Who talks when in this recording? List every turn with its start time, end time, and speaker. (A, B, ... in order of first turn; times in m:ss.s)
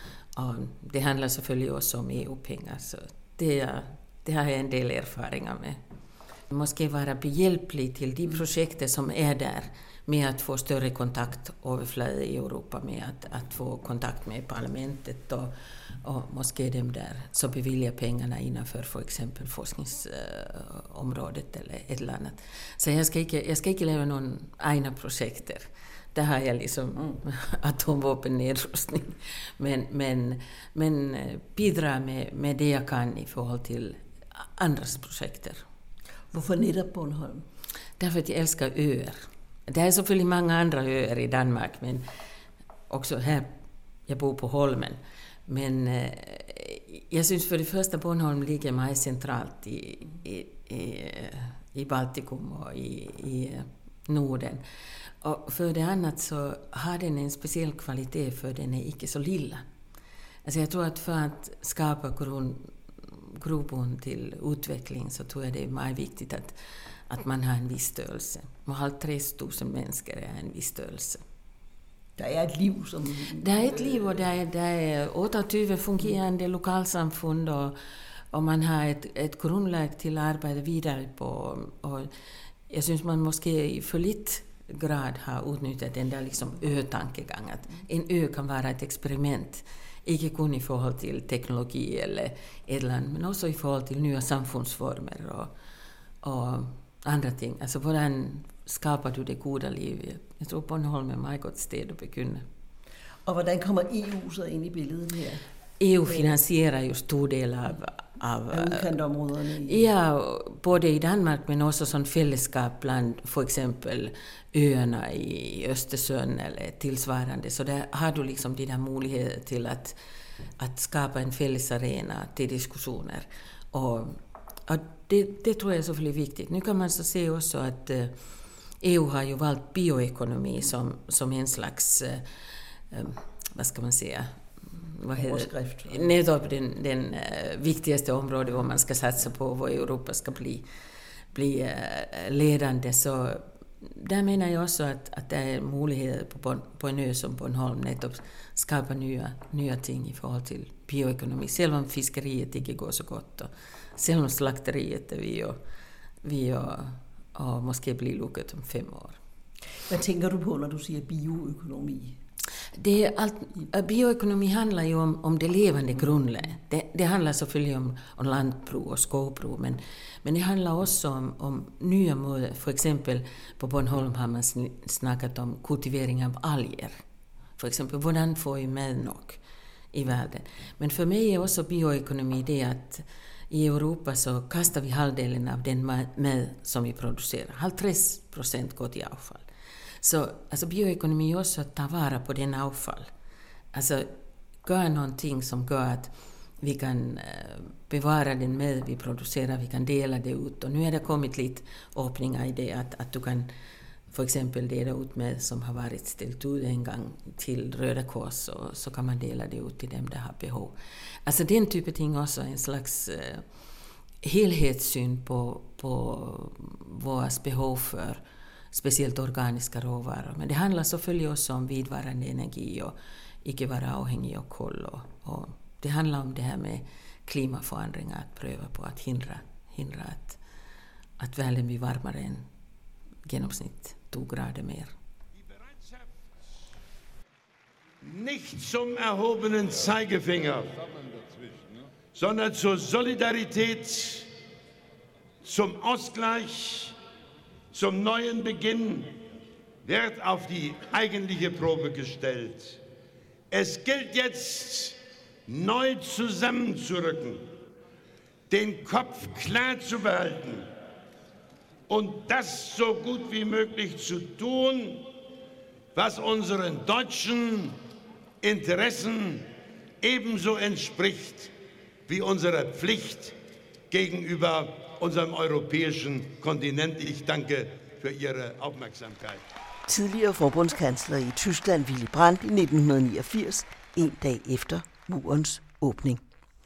0:00.3-0:05.8 A
0:06.5-0:35.6 A
0:36.3-0:37.4 B
0:38.0-0:42.0 A
0:42.9-0:43.5 A
0:44.1-0:54.6 A
0:55.2-0:59.6 A
1:00.4-1:06.5 A
1:07.1-1:11.2 A
1:12.2-1:14.2 B
1:13.4-1:17.8 A
1:18.3-1:22.1 A
1:22.7-1:35.5 A
1:36.2-1:42.4 A
1:43.2-1:45.4 B
1:45.8-1:48.9 A
1:48.5-1:49.9 B
1:49.6-2:00.0 A
2:00.6-2:08.1 A
2:08.8-2:12.2 A
2:12.9-2:20.6 A
2:15.2-2:16.1 B
2:21.3-2:35.6 A
2:36.2-2:39.2 A
2:39.9-2:42.2 B
2:42.8-2:57.0 A
2:57.6-2:59.4 A
2:59.9-3:09.4 A
3:10.0-3:13.1 A
3:13.7-3:14.1 A
3:14.6-3:23.5 A
3:24.1-3:33.4 A
3:34.2-3:38.2 A
3:38.7-3:50.4 A
3:51.2-3:52.4 A
3:53.2-3:54.9 A
3:58.0-4:00.8 C
4:02.1-4:04.3 C
4:05.4-4:06.9 C
4:07.7-4:09.1 C
4:09.8-4:12.8 C
4:13.5-4:17.4 C
4:18.5-4:20.7 C
4:21.9-4:25.0 C
4:25.9-4:27.8 C
4:28.4-4:29.5 C
4:30.0-4:31.5 C
4:32.1-4:33.3 C
4:33.9-4:39.4 C
4:39.9-4:46.2 B